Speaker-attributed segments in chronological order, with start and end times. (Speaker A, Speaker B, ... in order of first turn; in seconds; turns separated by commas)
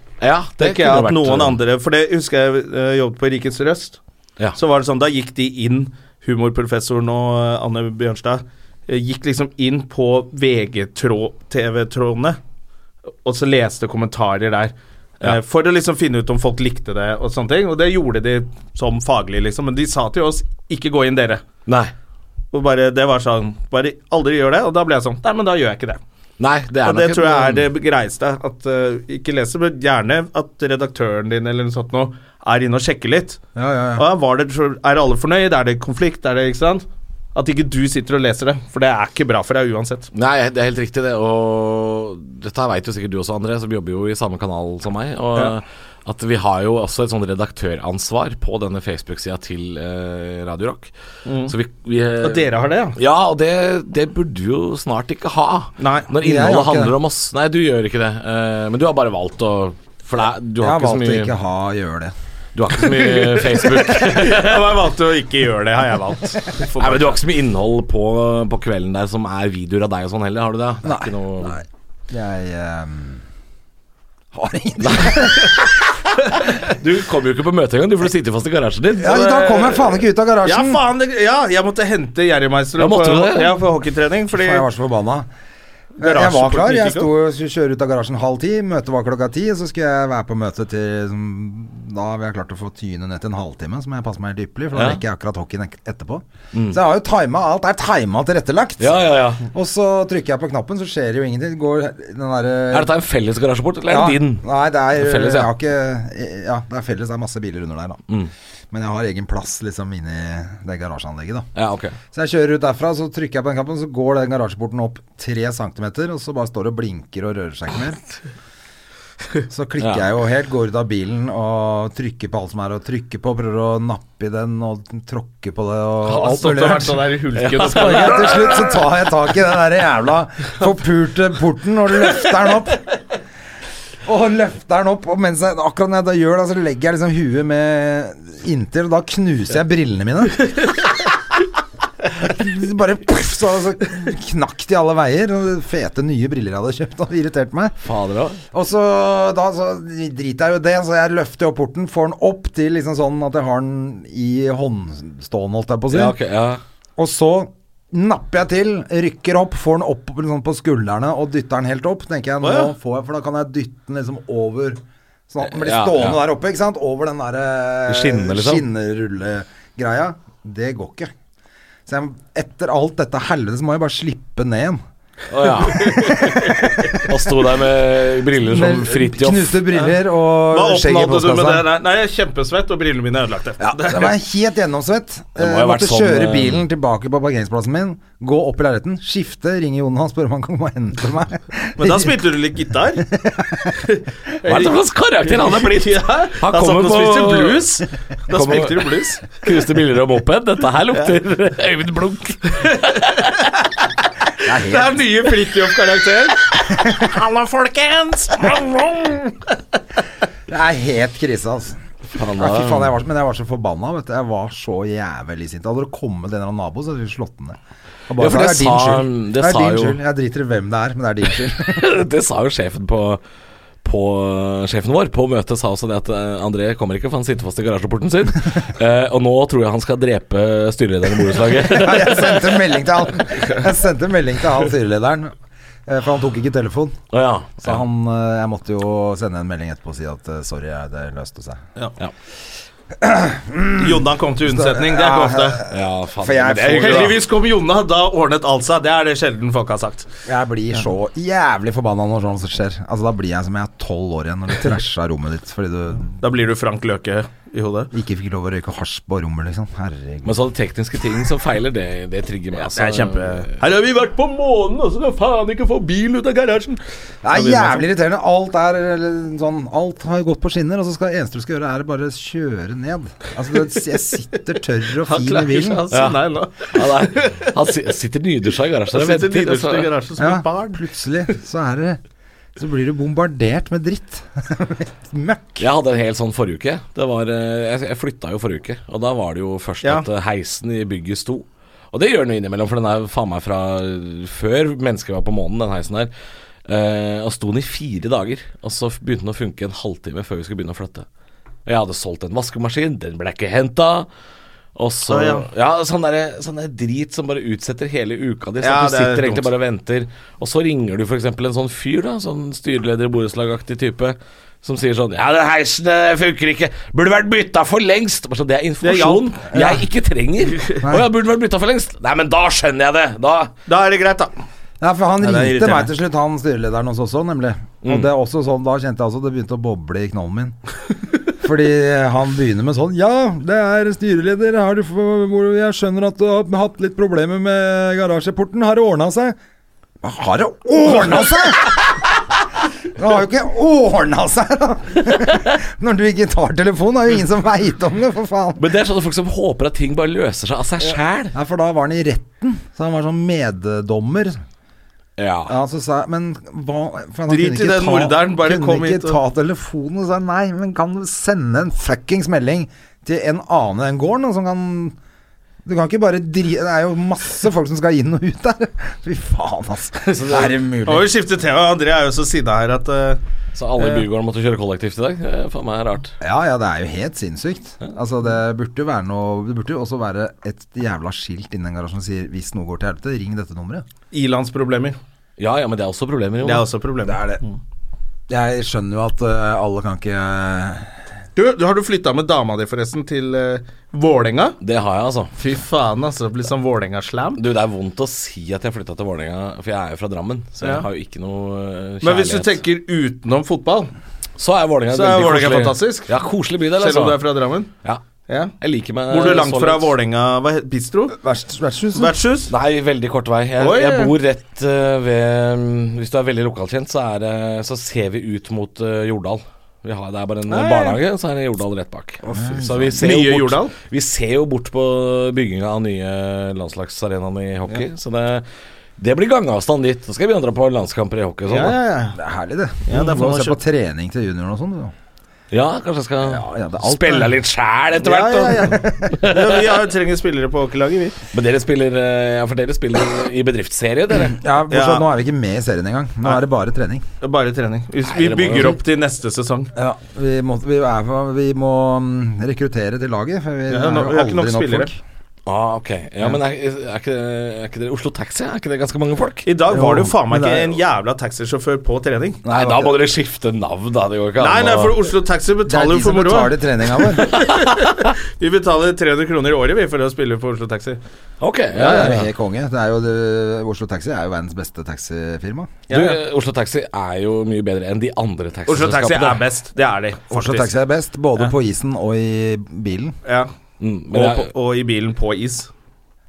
Speaker A: 0.2-1.6, Speaker B: 0.6-4.0, Speaker B: 4.6-12.4, Speaker B: 13.2-21.4, Speaker A: 21.7-21.9, Speaker B: 22.5-26.0, Speaker A: 26.4-27.7, Speaker B: 26.9-33.4, Speaker C: 33.5-34.1, Speaker B: 34.0-40.1, Speaker A: 40.1-50.9, Speaker B: 51.3-51.5, Speaker A: 51.5-61.3, Speaker B: 52.2-53.0, Speaker B: 55.8-56.1, Speaker C: 56.2-57.0, Speaker C: 60.6-62.1, Speaker A: 62.5-64.7, Speaker B: 63.0-67.2, Speaker A: 66.8-71.6, Speaker C: 70.8-73.2, Speaker C: 74.3-75.6, Speaker A: 74.8-75.6, Speaker A: 76.7-80.0, Speaker C: 78.9-80.8, Speaker B: 80.4-84.7, Speaker A: 82.8-83.6, Speaker C: 84.3-85.3, Speaker C: 86.0-99.0, Speaker B: 86.0-87.1, Speaker A: 94.7-95.0, Speaker A: 96.5-96.8, Speaker A: 98.8-99.5, Speaker C: 99.5-102.9, Speaker A: 102.7-105.5, Speaker C: 103.9-108.0, Speaker C: 108.7-111.5, Speaker A: 111.5-112.0, Speaker C: 112.1-118.0, Speaker C: 119.5-127.0, Speaker A: 119.8-120.0, Speaker B: 126.1-128.5, Speaker A: 127.4-128.7, Speaker C: 127.6-132.9, Speaker C: 134.1-140.7, Speaker C: 142.1-147.8, Speaker A: 147.8-148.4, Speaker C: 148.5-156.2, Speaker A: 155.9-156.6, Speaker C: 157.0-171.1, Speaker B: 162.4-162.7, Speaker A: 165.5-166.2, Speaker A: 167.9-168.7, Speaker C: 171.9-174.8, Speaker A: 175.3-179.7, Speaker C: 175.7-177.0, Speaker C: 178.4-181.7, Speaker B: 180.5-184.1, Speaker C: 183.6-192.2, Speaker A: 185.4-186.7, Speaker B: 191.8-193.1, Speaker C: 193.0-193.8, Speaker B: 193.8-199.3, Speaker A: 194.4-197.8, Speaker A: 198.3-203.3, Speaker B: 202.7-203.4, Speaker C: 204.4-205.0, Speaker B: 204.7-209.4, Speaker C: 210.5-211.8, Speaker A: 212.1-212.9, Speaker C: 212.4-217.6, Speaker C: 218.1-221.9, Speaker A: 218.2-220.0, Speaker A: 221.6-223.2, Speaker A: 223.8-232.6, Speaker C: 231.5-235.3, Speaker C: 235.9-237.0, Speaker A: 237.1-237.8, Speaker C: 237.6-241.6, Speaker C: 243.0-247.2, Speaker B: 243.8-245.6, Speaker A: 245.7-247.2, Speaker B: 246.8-250.1, Speaker C: 250.3-256.1, Speaker B: 256.2-257.9, Speaker C: 257.9-260.4, Speaker A: 260.2-263.5, Speaker B: 262.6-266.8, Speaker C: 267.2-275.8, Speaker B: 267.3-267.9, Speaker B: 275.0-277.5, Speaker A: 275.9-279.9, Speaker B: 278.9-280.8, Speaker C: 280.2-282.0, Speaker C: 282.6-285.7, Speaker A: 285.6-296.1, Speaker A: 296.7-301.1, Speaker A: 301.7-304.1, Speaker A: 304.8-323.5, Speaker B: 305.1-305.5, Speaker B: 308.6-309.5, Speaker B: 318.8-319.4, Speaker C: 319.5-319.9, Speaker C: 320.8-321.1, Speaker B: 323.7-324.3, Speaker C: 324.8-330.6, Speaker B: 325.2-325.9, Speaker A: 327.8-328.1, Speaker C: 331.4-339.4, Speaker C: 340.0-342.1, Speaker C: 342.9-348.6, Speaker A: 348.6-351.4, Speaker C: 351.3-354.4, Speaker A: 355.2-355.5, Speaker C: 355.5-365.0, Speaker B: 357.3-359.2, Speaker C: 365.6-371.1, Speaker A: 370.1-370.5, Speaker B: 370.9-373.2, Speaker A: 373.6-376.1, Speaker C: 376.2-383.9, Speaker B: 384.1-385.0, Speaker A: 385.4-386.7, Speaker B: 386.4-387.5, Speaker C: 387.1-387.4, Speaker C: 388.3-390.9, Speaker B: 391.4-394.6, Speaker A: 394.6-395.4, Speaker B: 395.4-397.4, Speaker A: 397.4-402.6, Speaker B: 400.6-400.9, Speaker B: 402.0-403.9, Speaker A: 404.4-407.2, Speaker B: 404.9-406.1, Speaker B: 406.8-407.7, Speaker A: 408.6-409.9, Speaker B: 409.1-411.2, Speaker C: 411.1-412.1, Speaker B: 411.9-412.5, Speaker A: 412.5-428.4, Speaker B: 413.6-414.1, Speaker B: 420.5-421.0, Speaker C: 422.2-423.0, Speaker B: 423.0-423.7, Speaker A: 429.0-431.8, Speaker B: 431.5-432.2, Speaker C: 432.1-434.9, Speaker B: 432.9-433.6, Speaker A: 435.5-439.7, Speaker C: 436.2-437.4, Speaker B: 438.0-441.1, Speaker C: 438.6-439.2, Speaker A: 441.3-444.4, Speaker C: 444.2-447.0, Speaker B: 444.7-445.1, Speaker B: 447.2-449.7, Speaker A: 448.1-448.8, Speaker C: 449.8-455.0, Speaker B: 453.7-454.9, Speaker A: 455.5-459.5, Speaker B: 459.4-462.4, Speaker C: 459.7-460.8, Speaker C: 462.4-463.0, Speaker A: 462.5-465.0, Speaker B: 464.4-471.0, Speaker C: 465.7-467.3, Speaker A: 467.3-468.0, Speaker A: 471.4-472.3, Speaker C: 471.8-475.7, Speaker B: 475.9-476.2, Speaker A: 475.9-479.4, Speaker B: 478.7-480.7, Speaker C: 480.3-483.2, Speaker B: 483.2-483.5, Speaker A: 483.8-484.5, Speaker B: 484.1-485.7